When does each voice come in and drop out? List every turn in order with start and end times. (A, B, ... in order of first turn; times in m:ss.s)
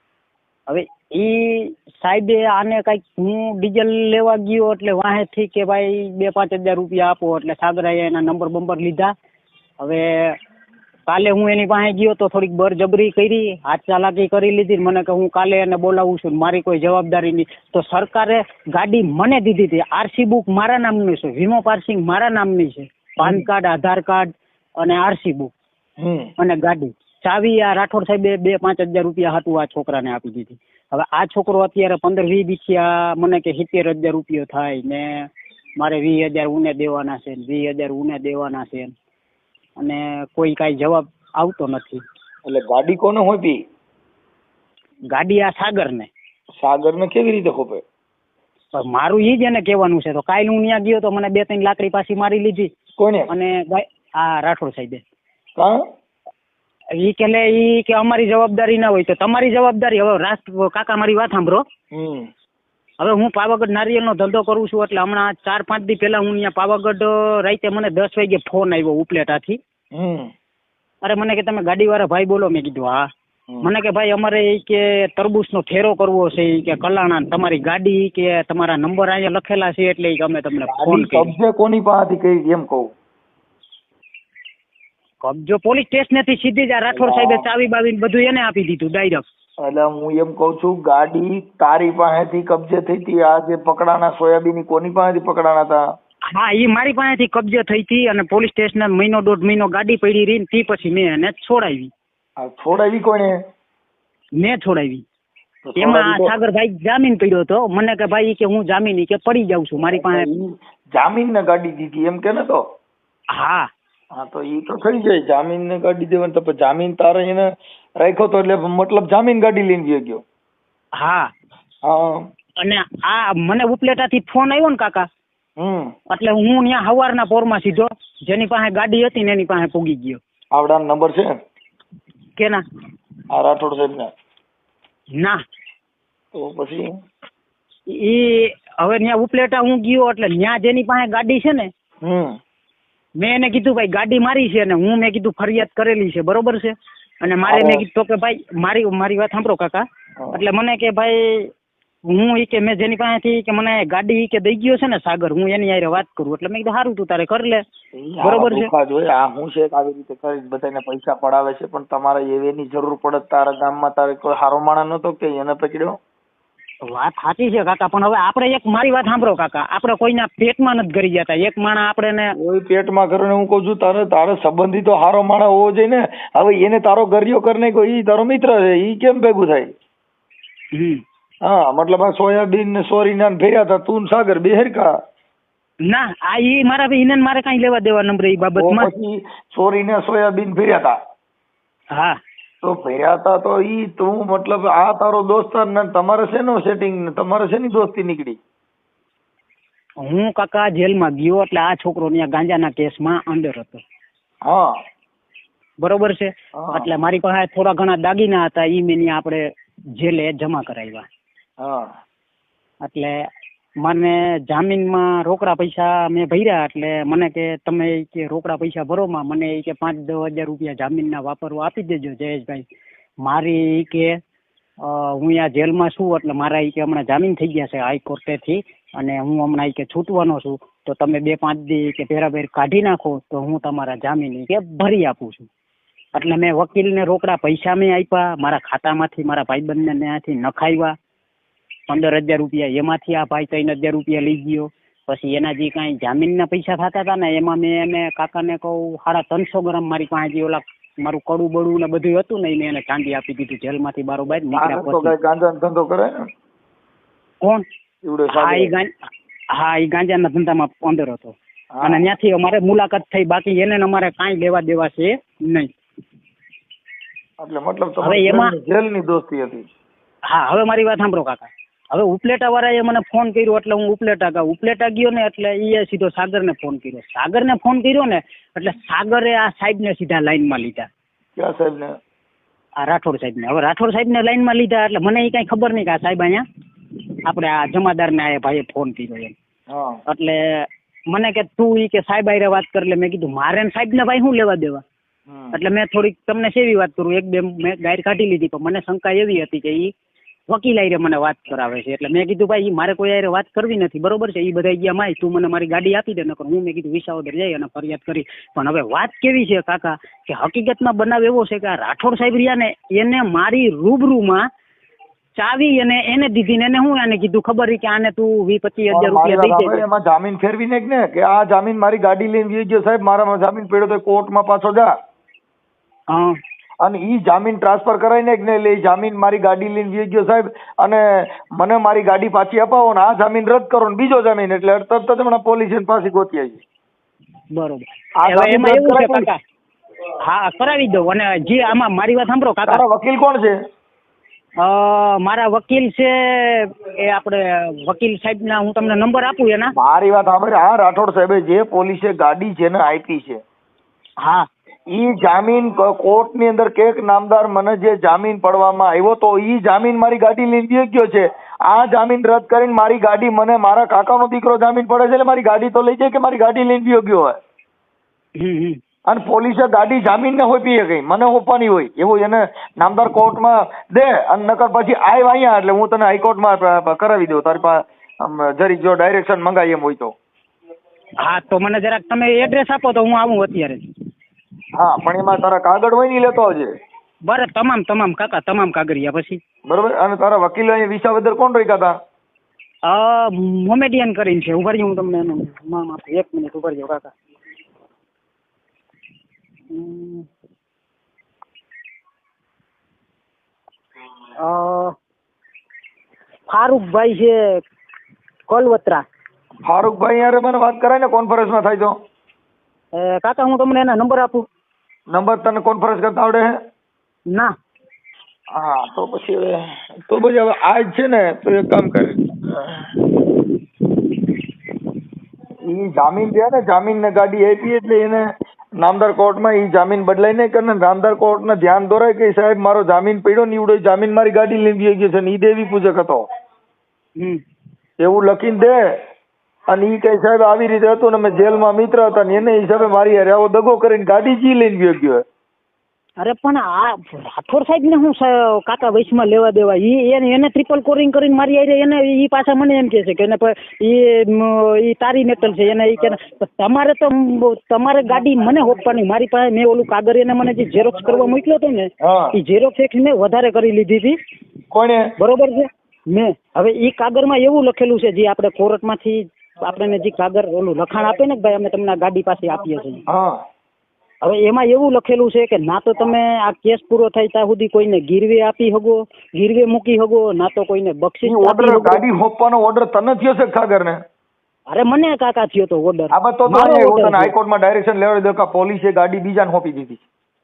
0:00.7-0:09.1 A
0:09.8-0:10.4 A
0:11.1-0:25.5 A
0:26.0-0:26.3 B
0:26.4-0:35.3 A
0:35.8-0:38.9 A
0:39.8-0:42.0 A
0:42.5-0:43.6 B
0:45.1-0:46.1 A
0:46.6-0:47.8 B
0:48.8-0:52.7 A
0:53.0-0:53.3 B
0:53.3-0:55.0 A
0:57.0-1:01.6 A
1:02.0-1:02.3 B
1:03.0-1:09.6 A
1:10.0-1:10.3 B
1:11.0-1:13.1 A
1:13.6-1:21.3 A
1:20.7-1:22.9 B
1:25.2-1:29.2 A
1:27.0-1:27.4 B
1:29.6-1:35.8 B
1:36.3-1:41.9 A
1:42.4-1:43.3 B
1:44.4-1:45.0 A
1:45.7-1:46.3 B
1:45.8-1:50.3 A
1:50.0-1:52.6 B
1:53.3-1:53.7 A
1:54.2-1:57.4 B
1:58.0-2:00.2 B
2:01.0-2:01.3 A
2:01.9-2:02.1 B
2:02.6-2:05.1 A
2:05.6-2:05.9 B
2:06.1-2:10.2 A
2:10.6-2:11.3 B
2:12.4-2:12.6 A
2:13.4-2:14.1 B
2:15.1-2:15.4 A
2:16.4-2:16.9 B
2:17.9-2:21.7 A
2:22.1-2:22.4 B
2:23.2-2:31.5 A
2:27.4-2:27.8 B
2:32.1-2:37.6 A
2:38.0-2:46.0 B
2:38.2-2:38.7 A
2:46.9-2:52.3 A
2:52.4-2:59.7 B
3:00.8-3:01.0 A
3:01.5-3:04.9 B
3:05.8-3:08.9 A
3:08.6-3:10.9 B
3:12.7-3:18.4 B
3:20.0-3:23.8 A
3:25.8-3:31.1 A
3:26.6-3:26.9 B
3:31.6-3:31.9 B
3:32.8-3:33.3 A
3:33.8-3:42.7 A
3:43.2-3:44.2 A
3:44.8-3:55.5 A
3:56.2-4:01.0 A
4:01.9-4:15.2 A
4:14.5-4:16.2 B
4:18.0-4:18.7 B
4:18.3-4:18.9 A
4:19.5-4:25.7 A
4:21.8-4:22.1 B
4:27.4-4:29.7 B
4:28.0-4:28.6 A
4:30.3-4:40.9 A
4:41.4-4:42.0 B
4:42.8-4:46.4 A
4:47.3-4:49.4 A
4:49.7-4:50.0 B
4:50.1-4:54.8 A
4:55.3-4:55.6 B
4:55.5-4:59.9 A
5:00.5-5:14.5 A
5:15.4-5:19.8 A
5:18.9-5:24.9 B
5:26.1-5:26.4 A
5:26.8-5:31.0 B
5:31.6-5:36.6 B
5:37.5-5:39.4 A
5:38.2-5:39.3 B
5:40.2-5:42.8 A
5:42.7-5:43.5 B
5:44.6-5:49.7 A
5:49.8-5:53.4 B
5:54.2-5:54.5 A
5:55.0-6:07.4 B
6:08.4-6:08.8 A
6:09.2-6:20.1 B
6:21.2-6:23.8 A
6:24.8-6:26.7 B
6:27.3-6:29.4 A
6:29.7-6:31.9 B
6:32.9-6:37.1 A
6:39.7-6:40.3 A
6:44.4-6:45.0 A
6:46.5-6:47.6 A
6:48.5-6:49.0 A
6:49.7-6:51.9 B
6:52.9-6:54.4 A
6:55.2-6:56.5 B
6:58.6-7:02.8 B
7:05.7-7:08.3 B
7:08.8-7:16.2 B
7:18.0-7:18.8 B
7:19.7-7:25.2 B
7:26.2-7:44.2 A
7:42.0-7:42.4 B
7:44.7-7:45.1 B
7:45.2-7:53.0 A
7:53.1-7:53.4 B
7:54.2-8:02.0 A
8:01.3-8:04.0 B
8:04.7-8:07.3 A
8:06.1-8:10.0 B